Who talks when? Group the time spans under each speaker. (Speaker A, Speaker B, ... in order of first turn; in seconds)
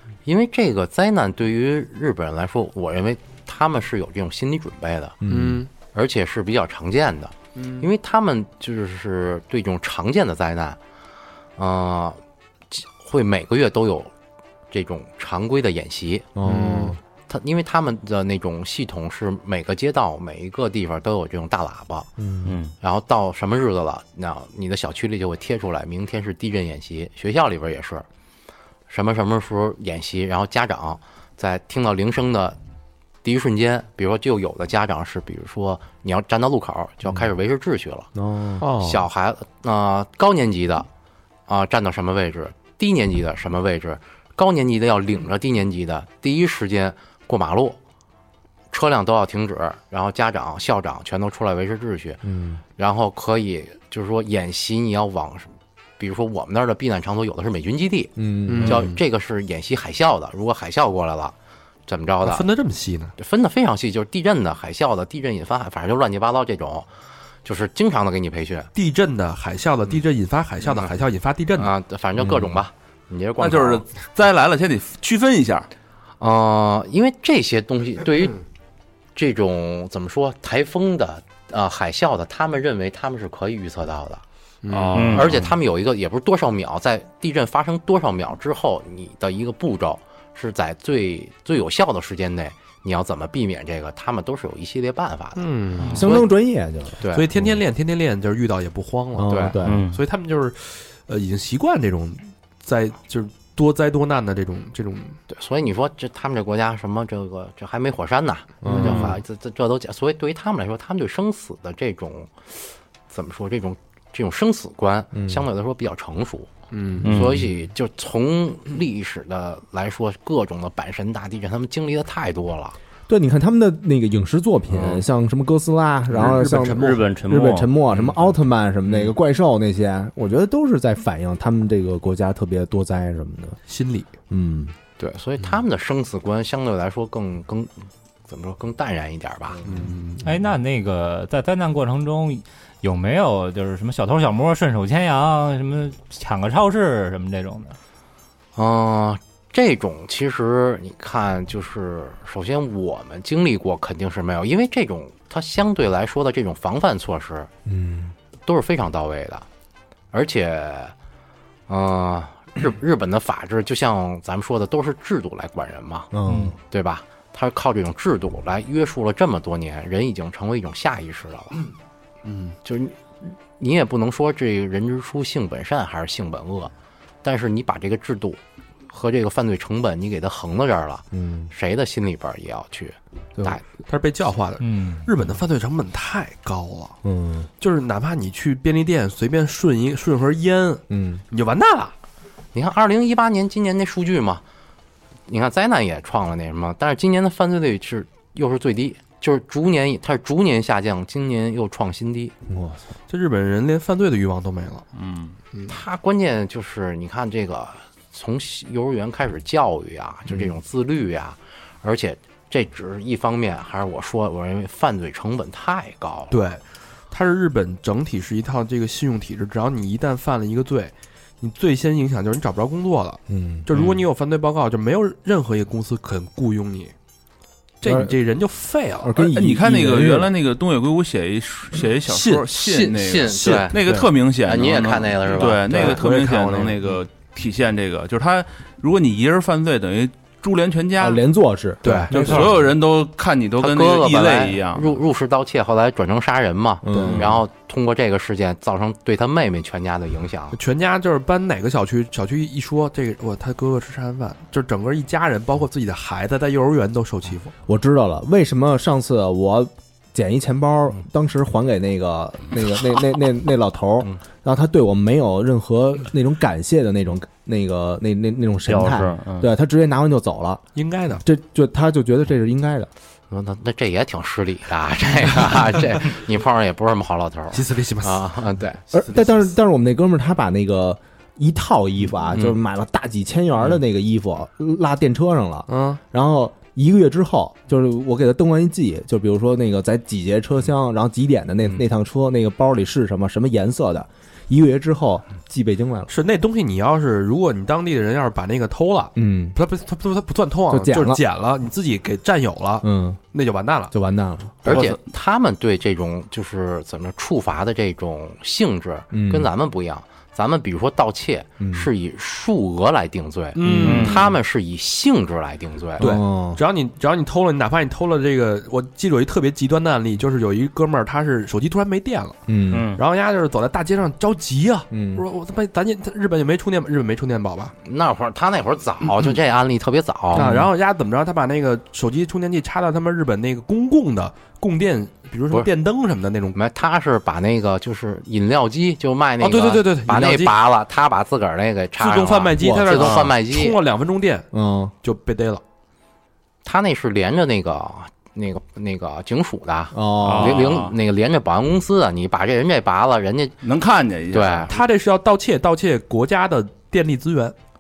Speaker A: 0.2-5.2, 5.9-10.8, 11.6-12.2, 12.7-14.1, 14.7-16.3, 17.3-22.1, 22.8-28.0, 28.9-32.6, 33.2-38.1, 38.7-40.9, 41.5-47.8, 48.7-52.2, 52.8-61.3, 61.9-62.5, 63.2-66.9, 67.4-68.7, 71.6-73.8, 76.2-78.4, 79.2-84.2, 85.1-96.3, 97.0-97.3, 99.3-99.6, 105.3-112.4, 113.1-116.5, 117.0-122.8, 135.0-139.6, 148.6-157.5, 158.4-159.4, 160.1-160.9, 161.7-166.1, 166.7-171.6, 172.6-176.7, 177.2-183.6, 192.5-194.4, 195.3-202.3, 205.7-216.4, 232.5-233.8, 234.4-236.0, 243.6-250.6, 273.3-278.8, 304.6-316.1, 327.8-330.5, 336.5-343.8, 346.6-353.6, 354.3-354.7
Speaker B: 5.2-5.7, 16.4-17.0, 22.2-22.5, 38.1-38.6, 52.2-52.6, 58.2-58.9, 95.9-97.5, 99.1-99.8, 108.6-109.2, 115.1-115.5, 123.1-133.6, 134.3-134.7, 157.7-158.1, 166.1-166.6, 181.1-181.5, 187.0-187.5, 190.9-191.2, 202.5-202.9, 223.3-223.7, 227.8-228.2, 229.0-230.3, 241.0-242.6, 246.8-247.3, 257.6-270.6, 271.1-272.9, 278.9-296.1, 299.1-299.6, 300.7-301.2, 302.8-303.2, 303.9-304.6, 309.1-309.5, 311.6-311.9, 313.6-314.1, 316.0-316.6, 322.5-322.9, 324.9-325.2, 330.3-330.7, 342.6-343.1, 344.5-344.9, 349.9-350.6
Speaker C: 5.3-5.7, 7.5-7.9, 16.4-17.0, 38.6-39.1, 58.5-59.0, 62.2-63.1, 68.7-71.7, 84.6-85.3, 95.4-96.2, 97.1-105.2, 108.6-109.2, 116.7-117.1, 126.1-127.1, 127.9-128.3, 128.9-129.1, 133.7-134.1, 139.6-140.3, 183.9-187.0, 187.6-191.9, 203.1-204.9, 205.5-205.8, 216.3-226.9, 227.8-229.3, 232.1-232.5, 233.3-234.1, 235.7-237.0, 241.8-242.5, 246.9-247.3, 250.5-257.5, 270.7-271.2, 277.5-278.4, 285.7-286.0, 296.1-303.9, 313.5-314.2, 316.0-322.4, 322.9-327.7, 330.3-336.6, 339.4-340.6, 342.0-344.5, 345.0-345.6, 354.7-357.5
Speaker D: 22.4-22.7, 84.9-85.4, 99.6-100.0, 117.0-117.4, 126.7-127.8, 268.7-269.5, 313.9-314.2, 322.7-323.0
Speaker E: 73.4-75.7, 84.7-85.3, 204.9-205.3, 223.7-224.1, 229.3-241.2, 242.1-245.0, 304.7-305.0, 350.2-350.9, 353.6-354.7
Speaker F: 140.2-147.8, 166.3-166.5, 184.6-185.1